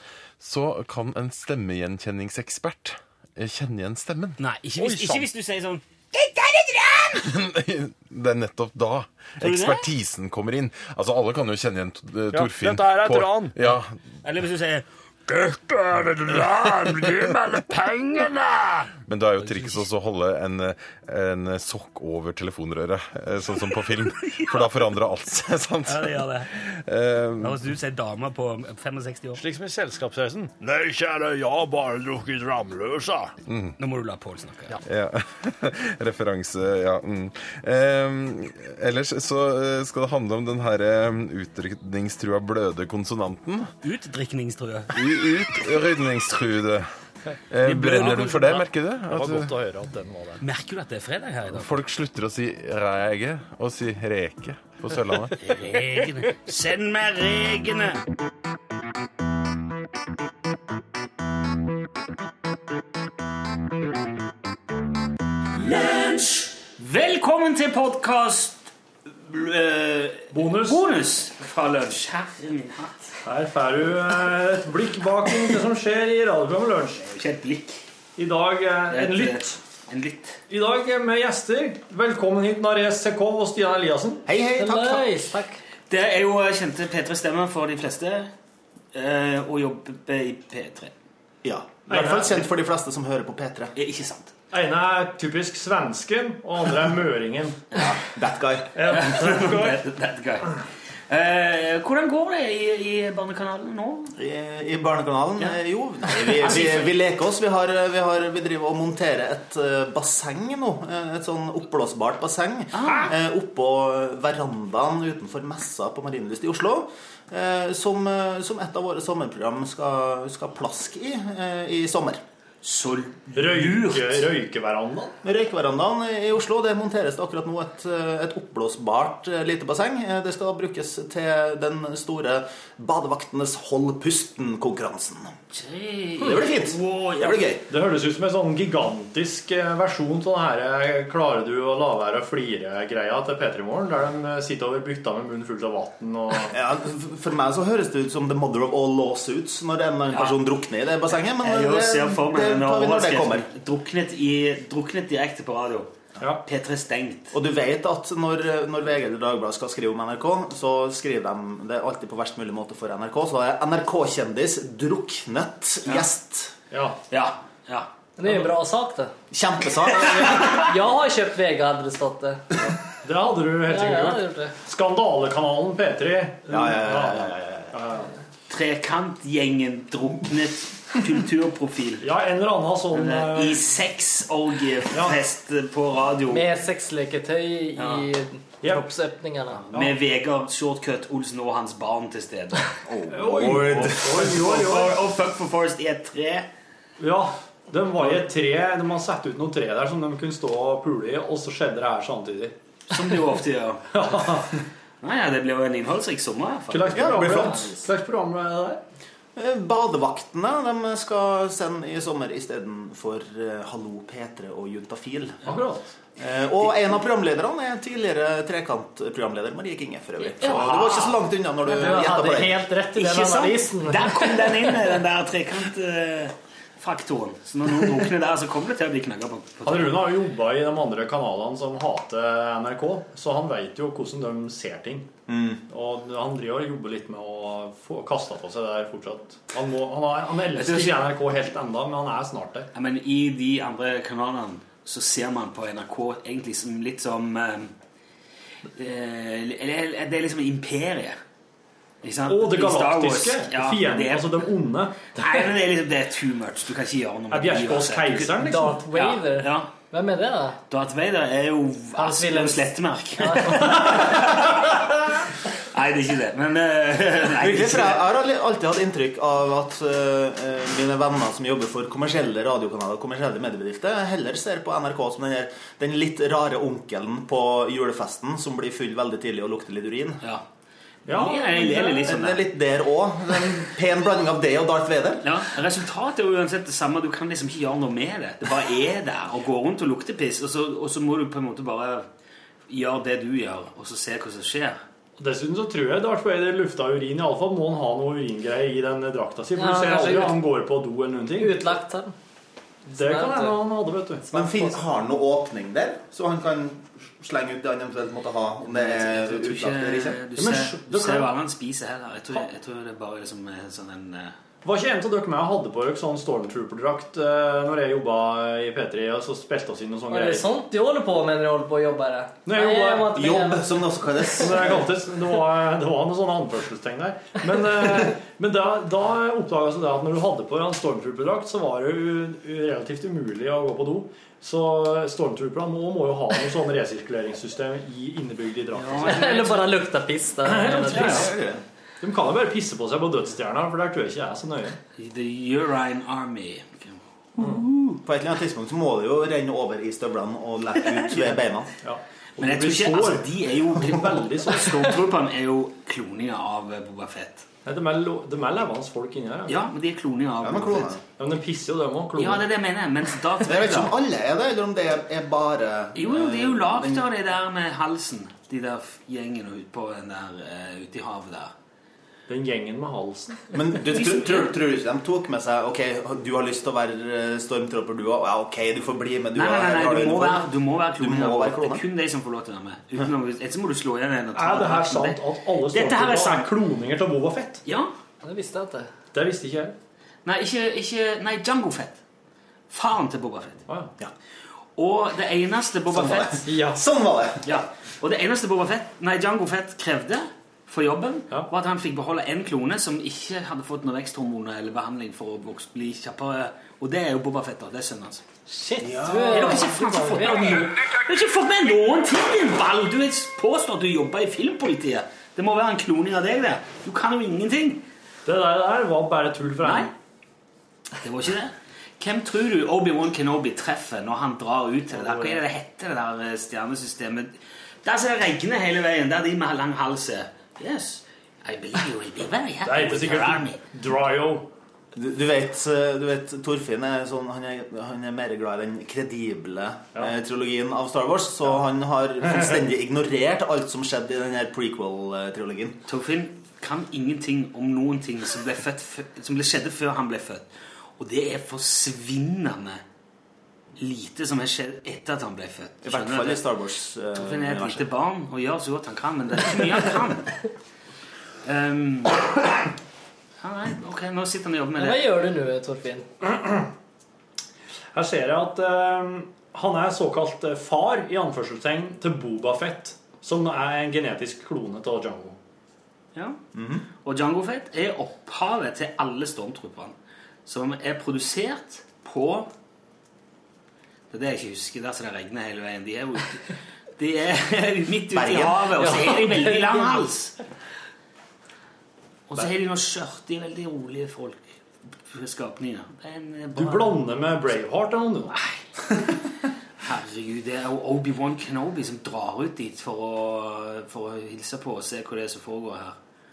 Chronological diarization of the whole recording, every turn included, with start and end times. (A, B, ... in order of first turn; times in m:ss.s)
0:00.4-0:04.4 A
0:04.4-0:07.2 B
0:04.8-0:05.3 C
0:07.2-0:14.0 A
0:09.4-0:09.9 B
0:12.3-0:13.6 C
0:13.7-0:19.9 B
0:19.1-0:27.6 A
0:24.2-0:24.7 B
0:25.9-0:26.6 B
0:27.4-0:29.4 B
0:29.4-0:33.3 C
0:33.5-0:33.8 A
0:33.8-0:34.8 B
0:34.9-0:43.7 A
0:43.8-0:44.9 B
0:44.9-0:46.9 A
0:47.5-0:49.5 A
0:47.6-0:48.7 B
0:49.1-0:50.4 C
0:50.4-0:51.8 B
0:51.5-0:55.4 A
0:55.4-0:58.0 B
1:05.6-1:08.7 B
1:09.2-1:13.2 B
1:10.3-1:10.8 C
1:13.2-1:17.0 C
1:17.0-1:17.8 B
1:18.2-1:19.6 C
1:18.9-1:20.4 B
1:20.5-1:24.2 C
1:24.3-1:25.1 D
1:24.5-1:25.6 E
1:25.9-1:28.3 B
1:28.9-1:30.9 B
1:31.4-1:33.7 D
1:31.9-1:32.3 C
1:33.8-1:34.3 B
1:34.5-1:37.6 C
1:37.7-1:38.0 B
1:38.1-1:38.9 D
1:38.8-1:39.8 C
1:38.8-1:44.1 B
1:44.2-2:02.2 D
1:45.4-1:46.9 B
1:52.7-1:53.1 B
2:02.6-2:04.3 B
2:03.3-2:05.2 C
2:05.2-2:15.4 D
2:15.5-2:17.5 B
2:16.2-2:17.6 D
2:17.7-2:26.6 C
2:26.5-2:33.5 D
2:30.1-2:30.4 B
2:31.4-2:37.3 B
2:37.3-2:46.6 D
2:46.7-2:47.0 C
2:47.1-2:47.9 B
2:48.2-2:49.1 E
2:49.3-2:50.6 D
2:50.0-2:50.7 B
2:50.5-2:52.4 E
2:52.9-2:58.1 C
2:53.7-2:54.6 E
2:56.5-2:57.8 D
2:58.5-3:02.1 B
3:02.0-3:03.7 C
3:02.9-3:06.4 B
3:04.9-3:05.2 C
3:06.3-3:09.6 E
3:07.8-3:08.1 B
3:09.5-3:12.8 B
3:09.7-3:10.0 C
3:12.9-3:14.2 D
3:13.1-3:15.0 C
3:13.4-3:16.5 B
3:17.0-3:22.6 C
3:22.9-3:24.4 B
3:23.9-3:24.6 C
3:25.0-3:27.8 B
3:26.7-3:28.8 C
3:26.9-3:27.9 D
3:29.4-3:35.4 D
3:35.4-3:35.9 C
3:36.2-3:42.6 D
3:40.4-3:41.0 B
3:40.4-3:41.1 C
3:41.6-3:44.9 E
3:41.7-3:42.1 B
3:42.9-3:50.0 B
3:49.6-3:55.1 C
3:55.3-3:55.6 D
3:55.7-4:02.7 C
4:00.6-4:01.0 B
4:02.7-4:07.7 B
4:08.7-4:11.2 B
4:12.0-4:14.5 B
4:12.3-4:15.5 C
4:15.1-4:19.7 B
4:17.3-4:18.8 C
4:18.5-4:20.6 E
4:20.7-4:24.9 B
4:21.9-4:24.0 E
4:25.6-4:28.0 B
4:27.4-4:40.2 D
4:41.1-4:42.2 C
4:41.1-4:42.4 B
4:42.1-4:45.2 D
4:45.2-4:52.1 B
4:52.7-4:54.8 B
4:55.2-5:01.6 C
4:59.6-5:00.4 E
5:01.4-5:02.1 E
5:02.9-5:03.6 E
5:02.9-5:04.2 C
5:04.3-5:10.2 D
5:04.3-5:04.8 E
5:08.7-5:14.4 B
5:10.4-5:11.3 C
5:14.6-5:20.4 C
5:20.1-5:24.4 E
5:22.5-5:23.3 C
5:23.1-5:24.8 D
5:24.4-5:39.2 C
5:38.7-5:39.7 B
5:39.0-5:41.2 E
5:40.4-5:41.3 C
5:40.6-5:41.3 B
5:41.1-5:41.6 D
5:42.0-5:44.8 C
5:45.0-5:48.0 B
5:48.0-5:51.7 D
5:50.8-5:51.4 B
5:51.8-5:54.8 C
5:52.4-5:57.5 B
5:57.6-5:59.6 C
5:59.5-6:01.0 B
6:00.4-6:01.0 D
6:01.2-6:02.5 C
6:02.2-6:03.9 B
6:03.5-6:07.1 D
6:05.9-6:11.5 B
6:12.3-6:13.5 C
6:13.5-6:21.8 D
6:13.9-6:14.6 B
6:19.4-6:26.5 B
6:24.3-6:27.6 C
6:27.6-6:27.9 B
6:28.2-6:28.9 E
6:29.1-6:29.8 C
6:30.2-6:32.0 B
6:32.7-6:33.6 B
6:34.8-6:36.4 B
6:35.9-6:37.6 D
6:36.4-6:36.8 C
6:37.4-6:57.8 B
6:48.5-6:50.6 E
6:49.2-6:49.6 C
6:58.2-6:59.9 C
6:59.6-6:59.9 B
7:01.0-7:13.6 B
7:04.9-7:05.4 C
7:12.6-7:14.5 C
7:14.9-7:25.8 D
7:22.2-7:22.6 C
7:25.9-7:32.8 B
7:33.8-7:36.4 B
7:35.8-7:37.9 D
7:37.2-7:40.5 B
7:41.4-7:42.4 B
7:43.4-7:45.1 B
7:44.8-7:46.1 E
7:46.2-7:46.7 C
7:47.9-7:55.4 C
7:56.1-7:56.4 B
7:56.5-7:56.8 D
7:57.0-8:02.5 B
8:04.1-8:10.4 B
8:08.1-8:08.9 D
8:08.8-8:10.1 E
8:12.3-8:17.1 B
8:16.5-8:19.1 C
8:19.8-8:26.0 B